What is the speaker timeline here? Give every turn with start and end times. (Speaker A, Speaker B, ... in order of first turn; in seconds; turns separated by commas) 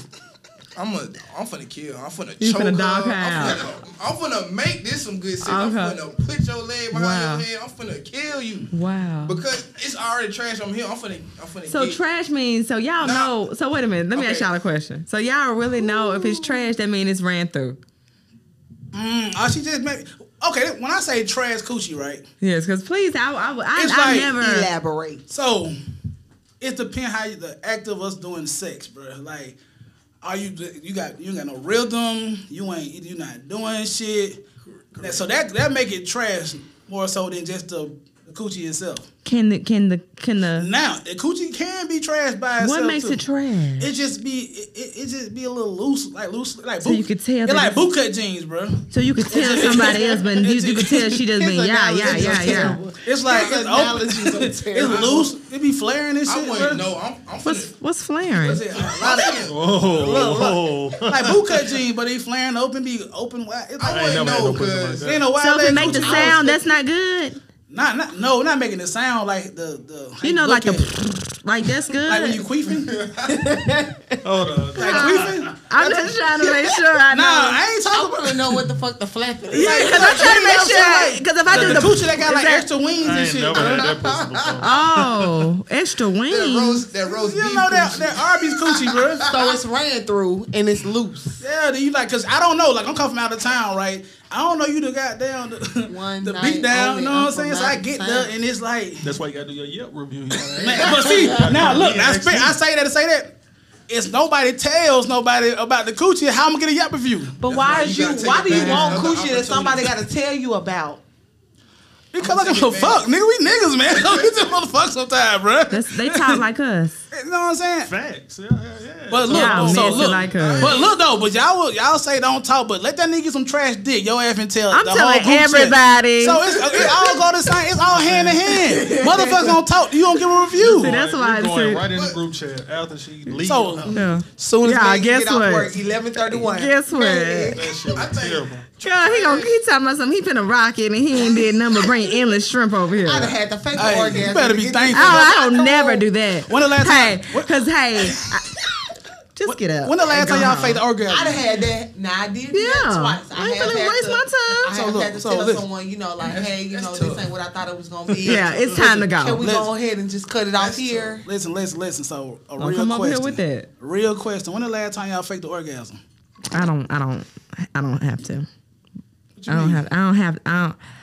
Speaker A: 0.7-8.7, Speaker B: 2.4-3.6, Speaker B: 5.4-6.0, Speaker B: 6.9-7.5, Speaker B: 8.7-9.4, Speaker A: 9.2-12.0, Speaker B: 11.7-17.8, Speaker A: 13.0-13.3, Speaker A: 14.1-14.5, Speaker C: 15.8-16.6, Speaker D: 18.9-22.2, Speaker B: 22.4-24.7, Speaker D: 23.8-24.4, Speaker C: 24.3-25.2, Speaker D: 25.3-25.7, Speaker D: 26.6-29.6, Speaker D: 30.2-34.4, Speaker A: 34.6-35.2, Speaker D: 35.0-39.1, Speaker B: 39.2-40.7, Speaker D: 40.6-43.2, Speaker B: 42.6-43.9, Speaker D: 43.8-51.2, Speaker B: 46.8-47.8, Speaker B: 48.9-52.8, Speaker C: 51.3-55.3, Speaker D: 52.0-56.9, Speaker A: 53.2-53.6, Speaker A: 54.8-55.3, Speaker A: 56.2-57.7, Speaker B: 57.4-58.6, Speaker D: 58.4-64.2, Speaker A: 58.7-59.5, Speaker E: 59.4-61.6, Speaker A: 63.8-65.2, Speaker E: 63.8-66.1, Speaker D: 65.0-66.4, Speaker B: 65.4-67.4, Speaker C: 66.0-66.6, Speaker D: 67.7-70.9, Speaker B: 70.2-72.5, Speaker D: 72.0-73.2, Speaker A: 73.0-73.3, Speaker C: 73.3-74.1, Speaker E: 74.2-75.5, Speaker B: 74.8-77.6, Speaker D: 74.8-78.6, Speaker C: 74.8-75.3, Speaker C: 77.9-80.8, Speaker D: 79.5-83.9, Speaker B: 79.5-82.7, Speaker E: 81.5-81.9, Speaker E: 83.0-85.4, Speaker A: 83.5-84.6, Speaker B: 84.6-86.8, Speaker A: 86.3-89.6, Speaker D: 87.0-89.2, Speaker C: 89.2-91.4, Speaker D: 91.4-99.1, Speaker C: 95.9-98.3, Speaker E: 99.0-102.5, Speaker D: 100.5-103.3, Speaker D: 103.9-107.4, Speaker C: 107.4-111.0, Speaker A: 107.4-110.0, Speaker B: 108.5-109.0, Speaker D: 112.1-116.4, Speaker A: 112.2-113.1, Speaker B: 115.7-117.0, Speaker D: 117.1-117.9, Speaker E: 117.8-120.3, Speaker D: 119.1-130.9, Speaker B: 119.3-120.8, Speaker A: 120.3-121.0, Speaker B: 124.7-126.5, Speaker C: 126.8-127.2, Speaker E: 127.9-128.3, Speaker C: 128.5-129.6, Speaker E: 130.5-134.0, Speaker B: 130.8-131.9, Speaker A: 131.9-132.2, Speaker D: 133.4-133.9, Speaker B: 133.9-137.6, Speaker C: 134.3-138.1, Speaker E: 137.5-138.7, Speaker A: 137.9-139.5, Speaker B: 138.8-143.4, Speaker C: 143.0-146.0, Speaker D: 143.7-145.3, Speaker B: 144.9-148.8, Speaker D: 146.5-148.3, Speaker B: 149.3-150.8, Speaker D: 149.5-151.4, Speaker C: 151.1-161.2, Speaker B: 152.5-154.7, Speaker D: 154.7-155.6, Speaker A: 156.2-157.3, Speaker B: 158.2-159.4, Speaker D: 159.4-159.7, Speaker A: 160.5-161.2, Speaker D: 161.2-166.0, Speaker B: 162.6-163.7, Speaker B: 166.5-168.5, Speaker D: 169.4-169.8, Speaker B: 169.5-170.8